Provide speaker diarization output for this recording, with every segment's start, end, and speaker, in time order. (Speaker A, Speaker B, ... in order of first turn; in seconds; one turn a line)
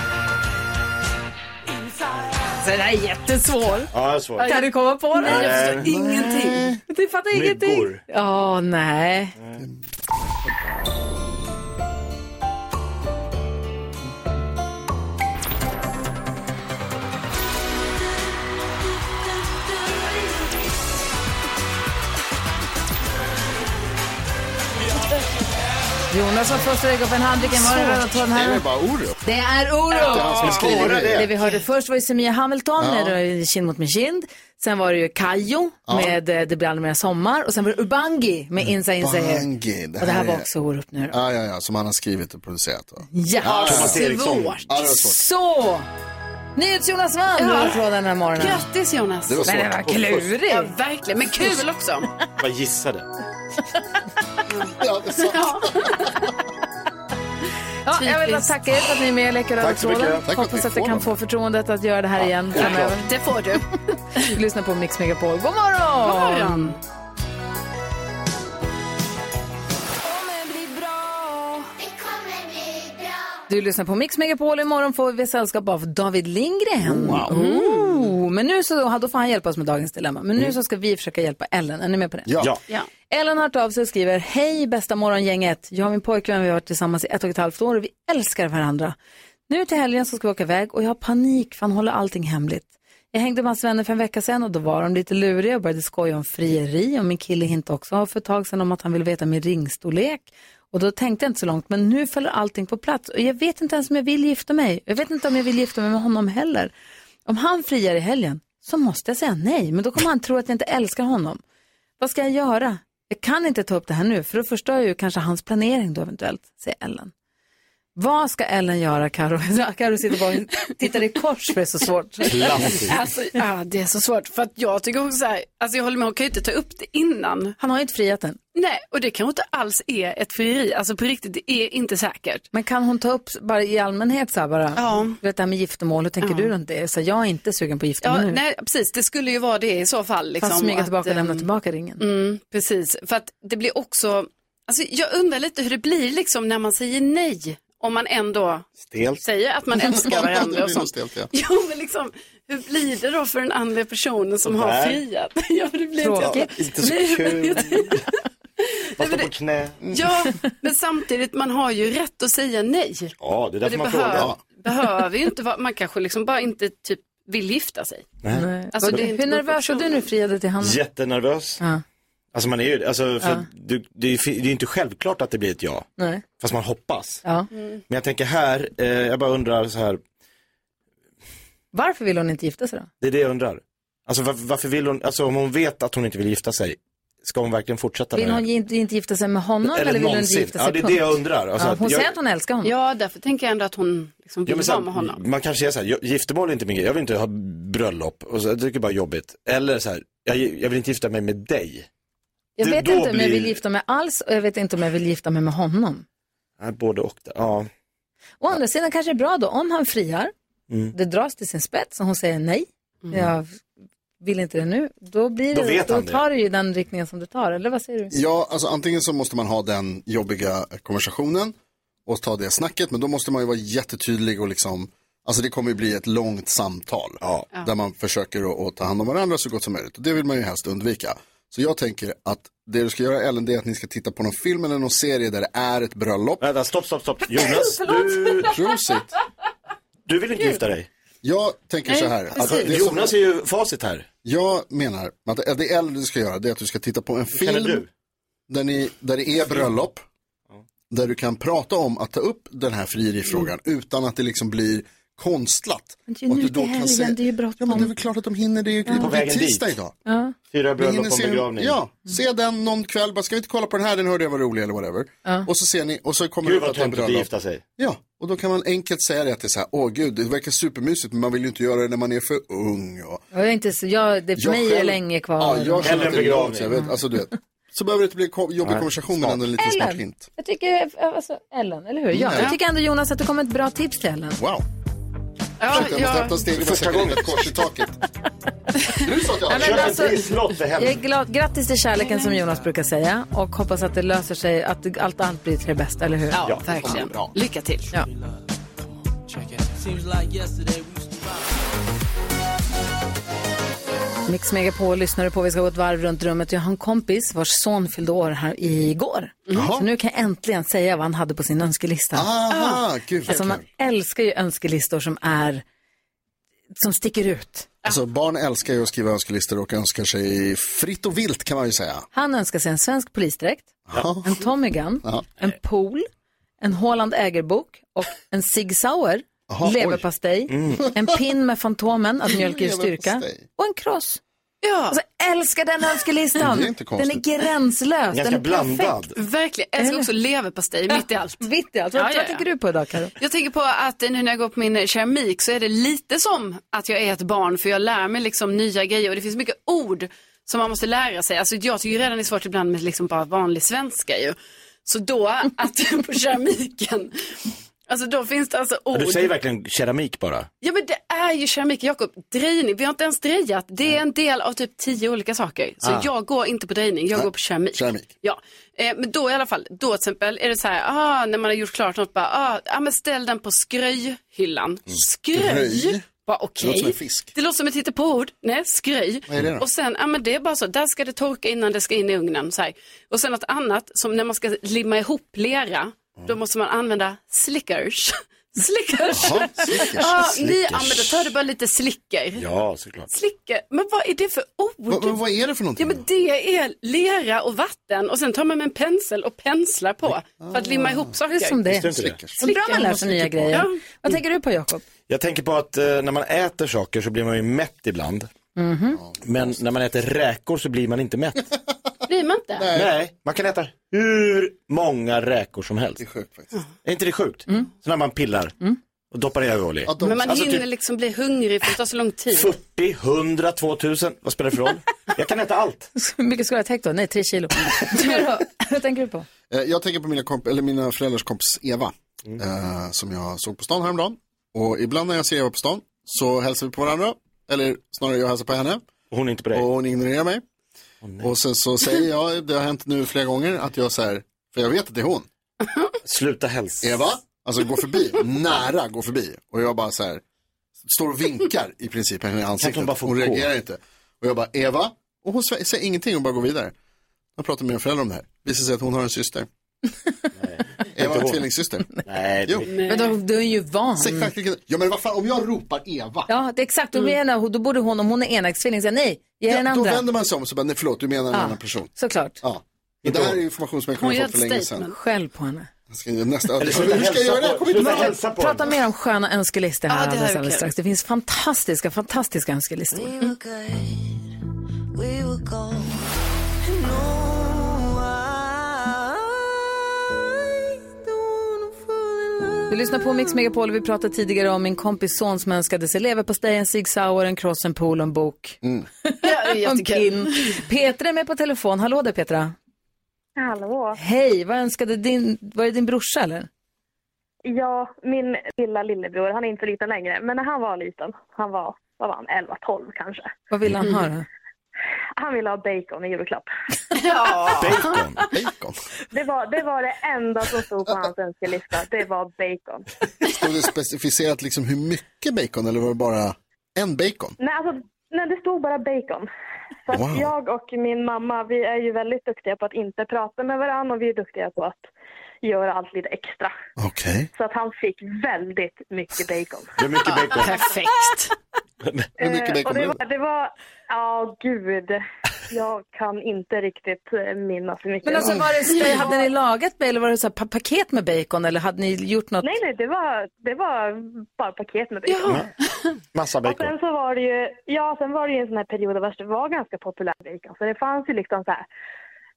Speaker A: 2.6-9.3
Speaker B: 3.9-4.6
Speaker C: 4.4-6.6
Speaker B: 5.2-5.9
Speaker D: 5.8-6.8
Speaker B: 7.3-8.0
Speaker A: 26.1-28.6
Speaker D: 27.7-29.2
Speaker A: 29.2-39.5
Speaker D: 29.9-31.3
Speaker B: 30.4-31.3
Speaker D: 32.8-33.2
Speaker D: 35.9-36.2
Speaker D: 38.6-40.5
Speaker A: 40.0-41.2
Speaker D: 41.1-44.2
Speaker A: 43.1-44.0
Speaker B: 43.4-44.6
Speaker C: 43.7-44.6
Speaker D: 44.7-45.2
Speaker A: 44.8-45.9
Speaker A: 46.6-48.6
Speaker C: 47.4-47.8
Speaker C: 48.4-49.5
Speaker D: 49.3-49.8
Speaker A: 49.5-50.7
Speaker B: 49.9-50.3
Speaker C: 50.5-52.1
Speaker B: 52.4-53.1
Speaker C: 54.5-56.1
Speaker D: 54.8-56.0
Speaker A: 57.9-63.1
Speaker C: 57.9-58.5
Speaker B: 59.6-60.2
Speaker D: 60.3-61.2
Speaker B: 62.5-63.0
Speaker C: 62.6-64.2
Speaker A: 64.2-66.8
Speaker C: 66.0-66.8
Speaker A: 73.5-82.3
Speaker D: 76.8-77.3
Speaker C: 77.3-78.1
Speaker D: 82.3-82.5
Speaker A: 83.1-89.0
Speaker A: 89.5-106.7
Speaker A: 107.3-111.4
Speaker A: 112.0-117.1
Speaker A: 118.0-122.7
Speaker B: 122.3-123.0
Speaker D: 122.3-122.9
Speaker C: 122.9-127.6
Speaker A: 127.6-128.4
Speaker C: 128.6-132.4
Speaker A: 132.5-138.4
Speaker C: 134.8-135.2
Speaker C: 136.2-136.5
Speaker C: 138.0-141.5
Speaker A: 140.4-142.0
Speaker C: 142.0-148.7
Speaker B: 148.8-149.2
Speaker C: 149.2-158.0
Speaker D: 149.8-151.3
Speaker B: 154.5-155.0
Speaker A: 156.0-156.5
Speaker B: 156.2-158.0
Speaker C: 158.6-159.3
Speaker B: 159.0-159.8
Speaker C: 159.9-168.1
Speaker B: 163.2-164.3
Speaker D: 164.1-164.4
Speaker B: 168.2-169.0
Speaker A: 168.3-170.8
Speaker C: 168.7-170.1
Speaker B: 170.6-171.6
Speaker B: 172.3-177.2
Speaker A: 173.2-173.5
Speaker A: 176.0-176.2
Speaker C: 177.5-177.8
Speaker B: 177.9-180.0
Speaker A: 181.7-182.9
Speaker B: 183.0-188.4
Speaker A: 188.1-192.7
Speaker B: 189.6-192.1
Speaker C: 192.6-195.2
Speaker B: 194.5-201.9
Speaker A: 202.6-206.1
Speaker B: 202.6-203.6
Speaker B: 206.6-207.7
Speaker A: 208.4-210.3
Speaker A: 210.9-213.6
Speaker A: 214.2-218.1
Speaker B: 215.5-216.2
Speaker D: 218.1-221.6
Speaker D: 222.1-236.5
Speaker B: 236.4-238.6
Speaker D: 238.5-239.1
Speaker B: 240.1-240.9
Speaker D: 241.2-243.2
Speaker C: 241.9-242.7
Speaker B: 242.4-244.1
Speaker D: 244.2-247.8
Speaker B: 247.3-247.9
Speaker D: 248.5-250.1
Speaker D: 250.9-259.9
Speaker A: 256.1-257.9
Speaker B: 259.0-259.7
Speaker A: 260.1-260.4
Speaker B: 260.5-261.8
Speaker D: 260.8-273.2
Speaker B: 266.4-267.6
Speaker A: 273.3-276.2
Speaker D: 274.4-280.3
Speaker B: 275.8-276.8
Speaker B: 278.6-279.4
Speaker A: 279.6-284.4
Speaker D: 282.1-282.6
Speaker D: 284.4-284.6
Speaker C: 285.6-286.4
Speaker D: 285.7-288.0
Speaker B: 286.5-287.6
Speaker D: 289.0-290.1
Speaker A: 289.5-296.4
Speaker B: 289.6-291.0
Speaker C: 292.0-292.4
Speaker C: 296.3-297.9
Speaker D: 296.7-297.3
Speaker E: 299.9-300.8
Speaker A: 304.3-312.3
Speaker D: 309.5-309.9
Speaker D: 312.1-313.6
Speaker C: 312.5-313.4
Speaker A: 313.3-315.6
Speaker A: 316.8-317.7
Speaker D: 317.9-322.1
Speaker A: 322.1-326.1
Speaker D: 323.9-324.4
Speaker A: 326.6-334.2
Speaker D: 329.5-330.1
Speaker B: 330.5-330.9
Speaker D: 332.3-333.5
Speaker C: 334.6-335.0
Speaker A: 334.9-339.0
Speaker D: 336.4-337.2
Speaker B: 338.1-339.1
Speaker C: 339.2-342.4
Speaker A: 339.8-340.1
Speaker A: 340.9-343.1
Speaker C: 343.2-357.4
Speaker C: 357.9-359.3
Speaker B: 358.9-360.5
Speaker C: 360.6-392.5
Speaker D: 367.1-368.1
Speaker D: 375.3-376.1
Speaker D: 376.6-377.3
Speaker D: 379.3-379.6
Speaker D: 389.1-390.2
Speaker B: 390.2-391.3
Speaker B: 392.4-393.1
Speaker C: 393.1-395.2
Speaker D: 394.9-396.0
Speaker C: 395.8-401.6
Speaker D: 400.4-401.1
Speaker A: 401.3-404.8
Speaker B: 401.7-402.2
Speaker D: 401.9-403.7
Speaker C: 402.4-403.8
Speaker B: 405.1-408.3
Speaker A: 408.6-409.0
Speaker D: 409.0-409.6
Speaker B: 409.2-411.5
Speaker C: 412.1-412.7
Speaker D: 412.6-412.9
Speaker B: 412.7-416.0
Speaker D: 416.0-416.5
Speaker B: 416.9-418.5
Speaker B: 419.1-420.6
Speaker D: 419.9-420.6
Speaker C: 420.0-422.5
Speaker B: 422.3-425.9
Speaker A: 426.0-429.3
Speaker D: 429.5-438.9
Speaker B: 439.1-439.7
Speaker D: 439.5-440.4
Speaker B: 441.0-441.3
Speaker D: 441.2-445.3
Speaker B: 446.1-447.0
Speaker D: 446.8-450.2
Speaker D: 450.8-456.7
Speaker B: 452.6-453.5
Speaker D: 457.4-459.5
Speaker B: 460.4-461.4
Speaker D: 461.0-462.7
Speaker B: 462.1-462.7
Speaker C: 462.7-463.2
Speaker A: 462.9-464.3
Speaker D: 464.0-466.3
Speaker A: 466.3-470.1
Speaker D: 469.5-474.9
Speaker A: 471.3-472.4
Speaker B: 473.0-473.4
Speaker C: 474.0-474.9
Speaker A: 474.9-475.7
Speaker D: 475.9-478.1
Speaker B: 476.6-478.7
Speaker A: 477.8-483.1
Speaker C: 479.9-480.7
Speaker E: 482.9-484.3
Speaker E: 484.9-489.5
Speaker E: 490.1-492.7
Speaker A: 492.7-502.5
Speaker C: 499.2-500.6
Speaker F: 503.4-504.0
Speaker A: 504.0-506.5
Speaker F: 507.4-513.3
Speaker A: 513.5-514.3
Speaker F: 515.2-516.5
Speaker C: 517.0-517.9
Speaker B: 517.5-518.3
Speaker D: 518.3-518.8
Speaker F: 519.1-522.9
Speaker D: 523.2-527.4
Speaker F: 527.4-529.3
Speaker F: 529.9-534.9
Speaker D: 529.9-530.3
Speaker F: 535.4-536.5
Speaker D: 536.8-537.3
Speaker F: 537.4-539.8
Speaker B: 539.8-540.6
Speaker C: 540.1-541.4
Speaker B: 541.8-542.1
Speaker D: 542.2-543.0
Speaker F: 542.2-549.2
Speaker A: 548.0-552.5
Speaker F: 552.4-555.5
Speaker C: 555.1-555.9
Speaker B: 556.1-556.7
Speaker F: 556.4-561.7